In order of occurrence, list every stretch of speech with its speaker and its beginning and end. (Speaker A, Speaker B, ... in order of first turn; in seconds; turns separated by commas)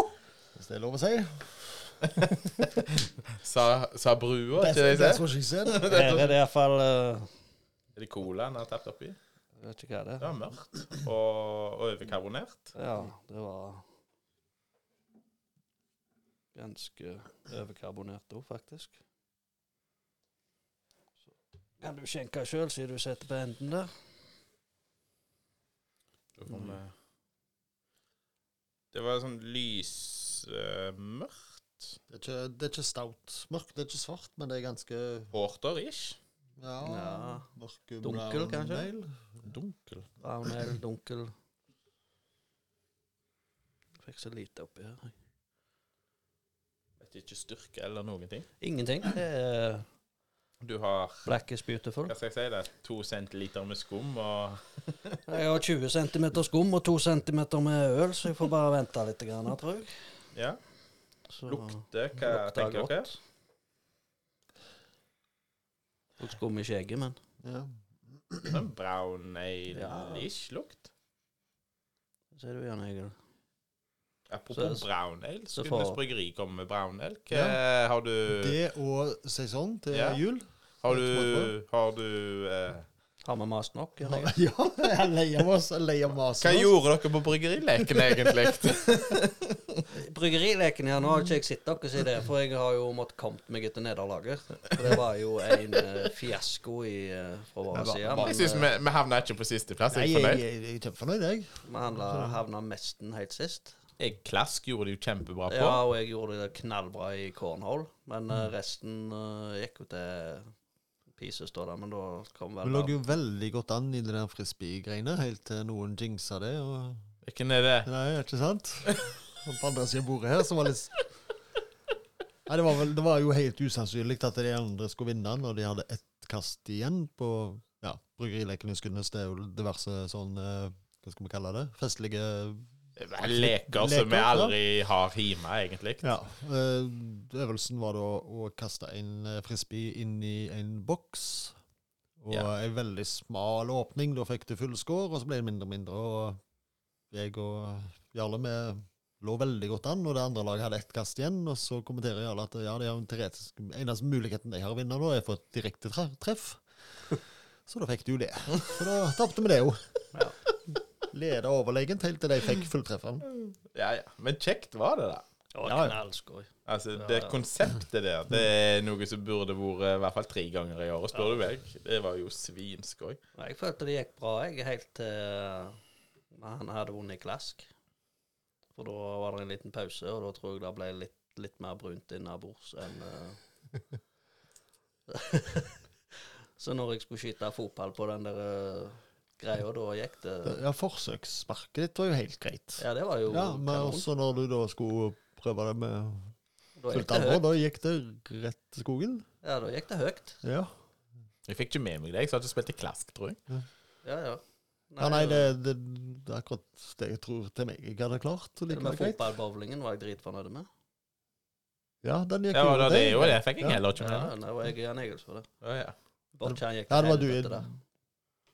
Speaker A: 0.5-2.4, Speaker B: 2.0-6.3, Speaker A: 4.6-6.2, Speaker C: 5.8-7.3, Speaker B: 8.0-9.2, Speaker C: 9.6-10.3, Speaker B: 10.2-12.7, Speaker C: 12.7-13.8, Speaker C: 16.5-19.0, Speaker C: 21.8-23.9, Speaker B: 26.4-26.9, Speaker B: 28.9-32.0, Speaker A: 32.1-35.3, Speaker B: 35.3-36.2, Speaker A: 36.6-39.4, Speaker C: 36.8-37.5, Speaker C: 38.0-38.9, Speaker B: 39.4-40.1, Speaker C: 40.2-41.3, Speaker C: 44.0-45.1, Speaker B: 47.0-48.5, Speaker C: 48.6-49.9, Speaker B: 50.6-51.3, Speaker C: 51.2-52.1, Speaker B: 52.1-55.2, Speaker C: 55.3-59.9, Speaker B: 60.3-60.6, Speaker C: 61.3-63.2, Speaker B: 61.5-63.1, Speaker C: 66.2-67.2, Speaker A: 67.4-68.6, Speaker B: 68.5-70.9, Speaker C: 69.7-70.3, Speaker C: 72.3-73.1, Speaker B: 74.3-78.5, Speaker C: 74.5-74.9, Speaker C: 75.5-76.0, Speaker A: 77.3-77.6, Speaker A: 78.3-81.5, Speaker B: 79.9-80.2, Speaker B: 80.8-82.8, Speaker C: 83.2-84.3, Speaker A: 84.0-86.7, Speaker B: 86.4-89.8, Speaker A: 87.8-88.7, Speaker C: 89.9-98.7, Speaker A: 97.7-98.3, Speaker B: 98.1-100.4, Speaker A: 99.9-102.4, Speaker C: 101.7-103.7, Speaker B: 104.0-105.8, Speaker C: 105.5-110.5, Speaker C: 111.2-112.9, Speaker A: 112.6-117.1, Speaker B: 117.2-117.9, Speaker A: 117.8-121.1, Speaker A: 122.5-132.7, Speaker B: 132.9-136.1, Speaker A: 133.2-134.6, Speaker A: 136.0-141.6, Speaker A: 142.2-146.4, Speaker A: 147.1-160.1, Speaker A: 161.1-163.2, Speaker B: 163.2-165.2, Speaker C: 165.5-167.4, Speaker A: 165.6-166.0, Speaker B: 166.7-173.2, Speaker C: 171.1-171.4, Speaker C: 173.3-175.8, Speaker C: 176.3-177.7, Speaker C: 178.7-183.4, Speaker C: 185.1-185.8, Speaker C: 186.6-190.6, Speaker A: 190.4-196.3, Speaker C: 192.8-194.1, Speaker C: 196.8-197.4, Speaker A: 196.9-199.2, Speaker C: 199.4-200.4, Speaker A: 200.4-200.7, Speaker B: 201.5-203.4, Speaker C: 204.0-205.5, Speaker A: 205.0-209.2, Speaker C: 208.7-210.7, Speaker A: 212.0-213.8, Speaker B: 212.5-214.3, Speaker C: 213.9-215.5, Speaker B: 215.6-215.9, Speaker C: 216.3-217.7, Speaker A: 216.4-217.7